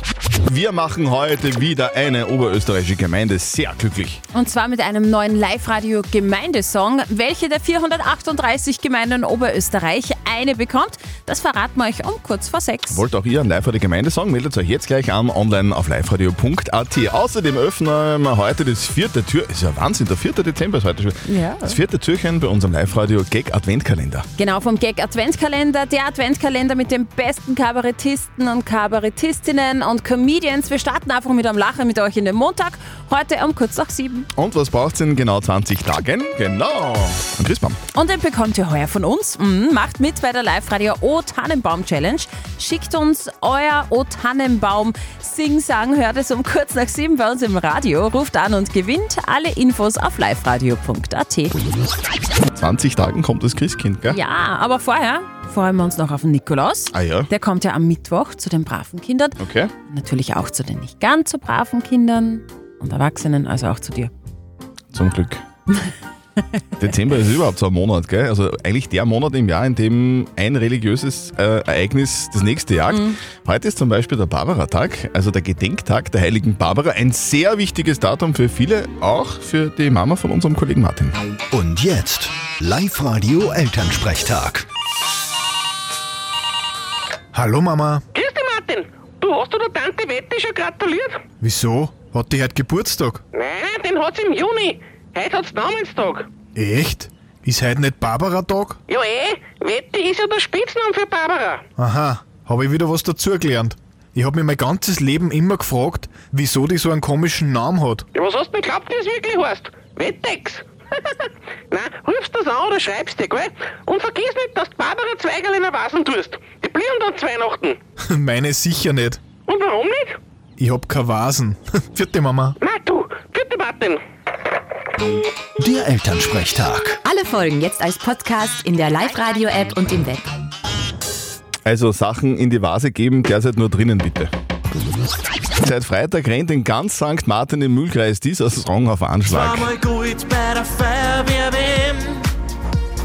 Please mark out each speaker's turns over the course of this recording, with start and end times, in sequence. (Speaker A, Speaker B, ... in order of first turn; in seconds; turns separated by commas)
Speaker A: 0.5-4.2, Speaker B: 4.3-13.0, Speaker A: 12.9-24.2, Speaker B: 21.2-21.8, Speaker B: 24.4-34.3, Speaker A: 34.3-37.8, Speaker B: 37.9-51.5, Speaker A: 52.5-54.2, Speaker B: 54.1-64.1, Speaker A: 56.9-57.3, Speaker A: 59.4-59.7, Speaker A: 64.9-65.4, Speaker A: 66.8-81.2, Speaker B: 72.9-73.2, Speaker C: 81.5-84.6, Speaker D: 87.3-88.0, Speaker E: 88.1-91.2, Speaker D: 91.4-93.2, Speaker E: 93.3-96.3, Speaker D: 96.5-98.8, Speaker E: 98.9-101.6, Speaker D: 101.8-108.0, Speaker E: 108.1-110.6, Speaker E: 111.7-117.8, Speaker D: 118.1-119.2, Speaker E: 119.5-120.2, Speaker D: 120.6-122.5, Speaker E: 122.6-124.0, Speaker C: 125.6-127.0, Speaker F: 127.0-130.3, Speaker A: 131.7-134.3, Speaker A: 135.6-139.7, Speaker G: 139.3-142.2